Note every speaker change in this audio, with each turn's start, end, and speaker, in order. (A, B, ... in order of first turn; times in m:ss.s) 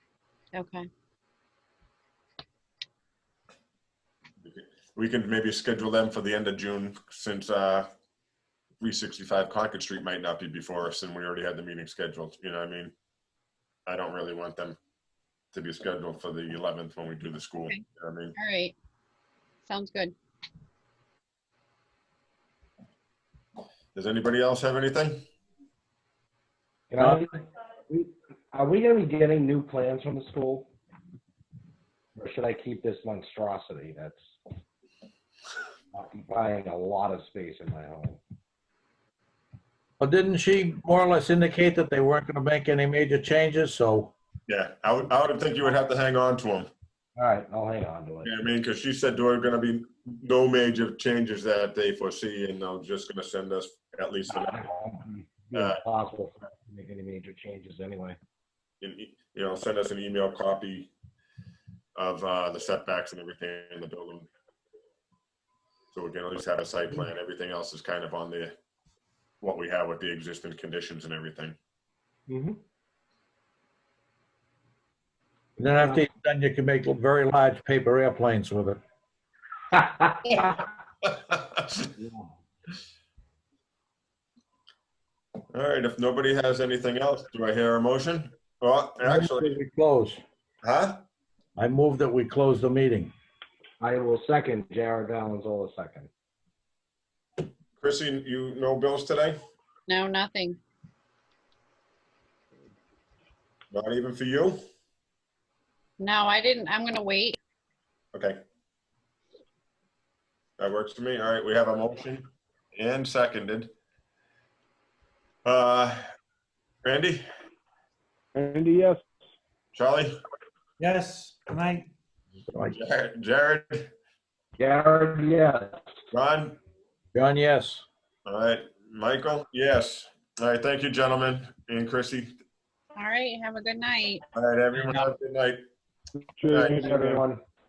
0:00.5-0:00.9 A
0:04.4-0:07.9 B
0:08.8-0:12.9 B
0:13.8-0:14.8 B
0:15.5-0:18.3 B
0:18.4-0:18.7 A
0:19.6-0:20.1 A
0:23.9-0:25.2 B
0:26.9-0:30.7 C
0:32.2-0:34.4 C
0:35.9-0:38.2 C
0:40.0-0:44.1 D
0:44.5-0:46.7 B
0:47.2-0:48.3 C
0:48.2-0:54.6 B
0:54.3-0:58.2 C
0:55.5-0:55.8 B
0:58.8-1:00.9 B
1:02.0-1:04.3 B
1:05.9-1:08.5 B
1:09.4-1:11.6 B
1:12.3-1:12.6 C
1:15.6-1:18.8 D
1:20.3-1:21.6 B
1:22.0-1:22.3 C
1:25.5-1:29.5 B
1:29.0-1:30.2 D
1:30.6-1:31.0 B
1:31.6-1:33.1 D
1:33.8-1:36.1 C
1:37.8-1:39.4 B
1:39.9-1:40.6 A
1:43.7-1:44.6 B
1:46.0-1:47.4 A
1:48.1-1:48.4 B
1:50.6-1:53.7 B
1:55.4-1:56.0 B
1:56.8-1:57.2 B
1:59.7-2:00.2 B
2:00.8-2:01.9 D
2:02.5-2:02.8 D
2:02.7-2:03.9 B
2:04.6-2:05.8 C
2:06.1-2:06.6 B
2:07.1-2:07.8 D
2:08.2-2:12.3 B
2:13.0-2:14.2 A
2:14.3-2:15.6 B
2:16.4-2:17.4 C
2:16.5-2:16.9 B